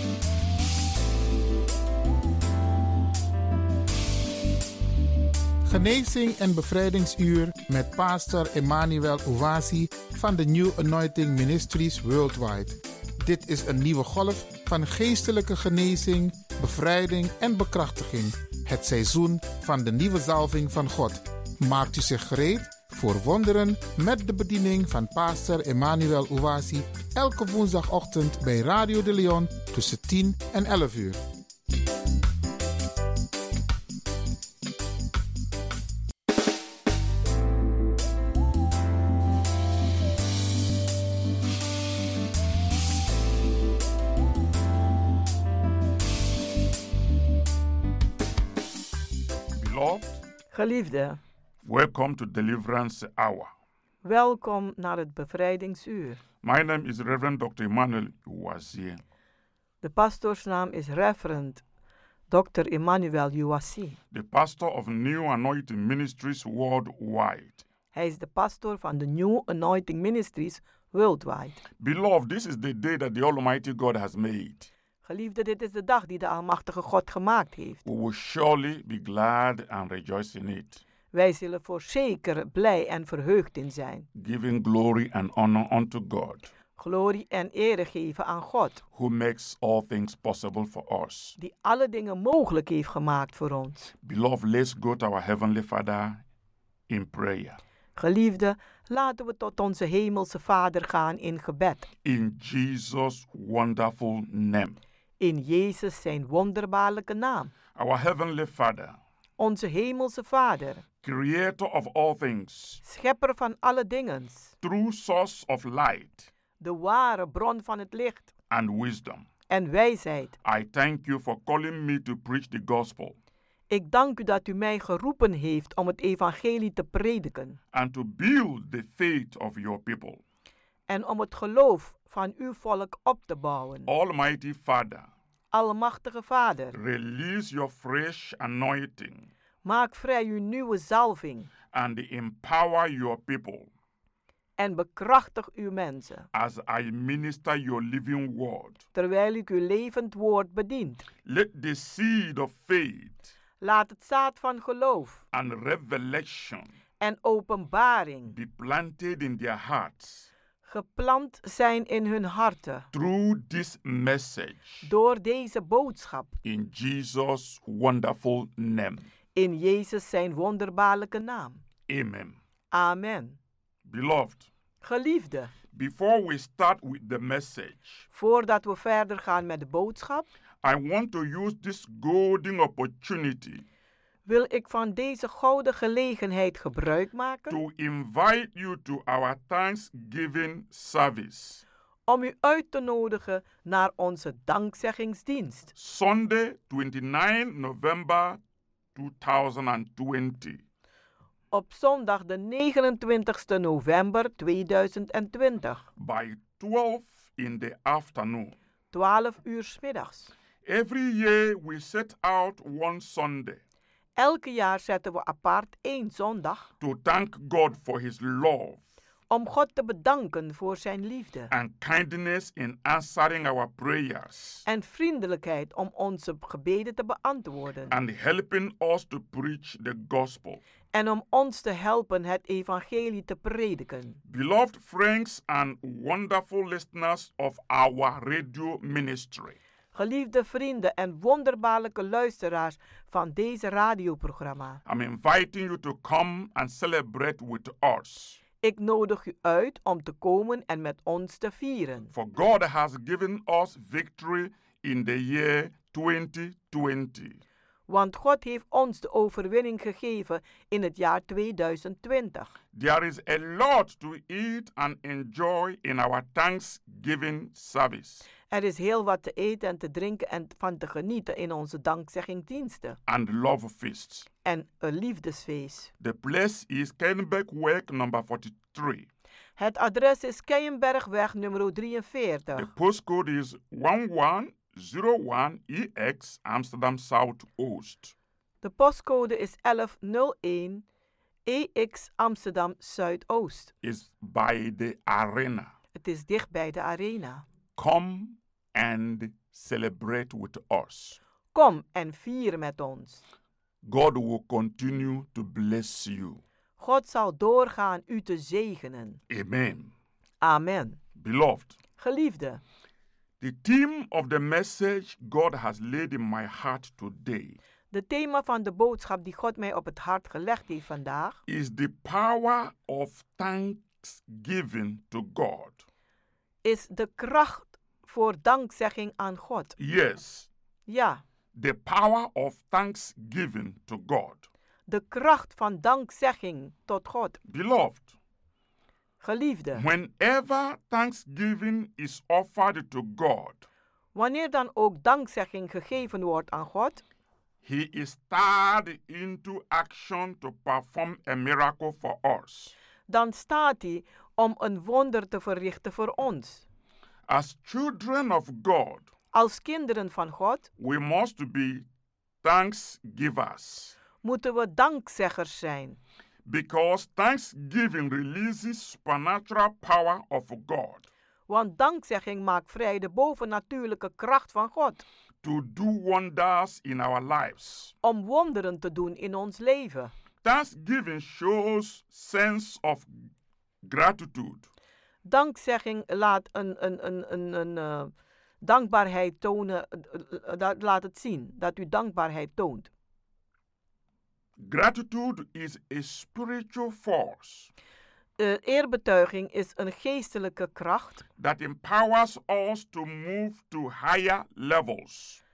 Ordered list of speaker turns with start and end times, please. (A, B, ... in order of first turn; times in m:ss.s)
0:05.6-0:31.2 A
0:49.5-0:50.2 B
0:50.5-0:51.2 C
0:51.6-0:53.5 B
0:54.0-0:56.2 C
0:56.4-0:59.0 B
0:59.8-1:01.6 C
1:02.3-1:04.0 C
1:04.1-1:07.6 B
1:07.9-1:11.6 C
1:11.8-1:14.7 B
1:15.0-1:17.8 C
1:17.8-1:20.8 B
1:21.1-1:24.0 C
1:24.1-1:26.5 B
1:26.8-1:28.8 C
1:28.9-1:31.4 B
1:31.4-1:33.9 C
1:34.0-1:36.2 B
1:36.9-1:37.6 B
1:38.0-1:41.9 C
1:42.0-1:44.8 B
1:45.2-1:47.5 C
1:47.7-1:49.0 B
1:49.4-1:50.8 C
1:51.0-1:52.8 B
1:52.8-1:54.5 C
1:54.6-1:56.3 B
1:56.6-1:58.3 C
1:58.5-1:59.2 B
1:59.5-2:00.3 C
2:00.4-2:03.2 B
2:03.7-2:07.6 C
2:07.7-2:10.2 B
2:10.9-2:13.9 C
2:13.9-2:15.1 B
2:15.5-2:16.7 C
2:16.7-2:19.3 B
2:19.6-2:21.5 C
2:21.7-2:23.7 B
2:24.6-2:26.3 C
2:26.3-2:28.8 B
2:28.9-2:31.1 C
2:31.2-2:33.3 B
2:33.6-2:35.2 C
2:35.3-2:36.7 B
2:37.0-2:38.3 C
2:38.3-2:40.3 B
2:40.6-2:42.9 C
2:42.9-2:44.9 B
2:44.8-2:46.3 C
2:46.4-2:49.1 B
2:49.3-2:51.6 C
2:51.9-2:52.4 B
2:52.7-2:53.4 C
2:53.8-2:54.5 B
2:54.8-2:55.5 C
2:55.7-2:58.0 B
2:58.1-3:00.3 C
3:00.6-3:03.6 B
3:04.2-3:07.6 C
3:07.5-3:11.6 B
3:12.1-3:15.7 C
3:15.8-3:18.4 B
3:18.9-3:20.6 B
3:21.5-3:25.8 C
3:26.0-3:28.6 B
3:28.9-3:30.3 C
3:30.6-3:33.6 B
3:34.2-3:36.7 C
3:36.8-3:38.8 B
3:39.3-3:41.5 C
3:41.5-3:44.6 B
3:44.6-3:47.9 C
3:47.9-3:50.6 B
3:50.9-3:54.2 C
3:54.3-3:59.6 B
3:59.9-4:04.8 C
4:04.8-4:08.4 B
4:08.6-4:12.1 C
4:12.1-4:17.4 B
4:17.9-4:22.5 C
4:22.7-4:28.3 B
4:28.5-4:33.0 C
4:33.1-4:34.3 B
4:34.4-4:35.9 C
4:36.0-4:39.1 B
4:39.6-4:42.7 C
4:42.6-4:48.1 B
4:48.6-4:50.8 C
4:51.4-4:53.7 C
4:53.8-4:55.7 B
4:56.0-4:57.4 C
4:57.8-5:01.2 B
5:01.5-5:03.2 C
5:03.8-5:06.4 B
5:06.8-5:09.2 C
5:09.3-5:09.9 B
5:10.4-5:11.0 C
5:11.2-5:11.8 B
5:12.0-5:12.6 C
5:13.4-5:17.6 B
5:17.9-5:21.4 C
5:21.5-5:25.8 B
5:26.6-5:29.7 C
5:29.8-5:30.5 B
5:30.9-5:31.2 C
5:31.5-5:34.5 B
5:34.9-5:37.4 C
5:37.5-5:38.1 B
5:39.2-5:39.8 C
5:39.7-5:43.6 B
5:44.1-5:47.0 C
5:47.6-5:52.7 B
5:53.1-5:56.6 C
5:57.3-5:59.1 B
5:59.3-6:00.7 C
6:00.8-6:01.8 B
6:02.4-6:04.0 B
6:04.2-6:06.0 C
6:06.4-6:11.1 B
6:11.5-6:15.0 C
6:15.4-6:17.9 B
6:18.0-6:20.1 C
6:20.4-6:23.3 B
6:23.8-6:24.7 B
6:25.2-6:32.9 C
6:34.6-6:37.7 B
6:38.4-6:41.2 C
6:41.4-6:45.4 B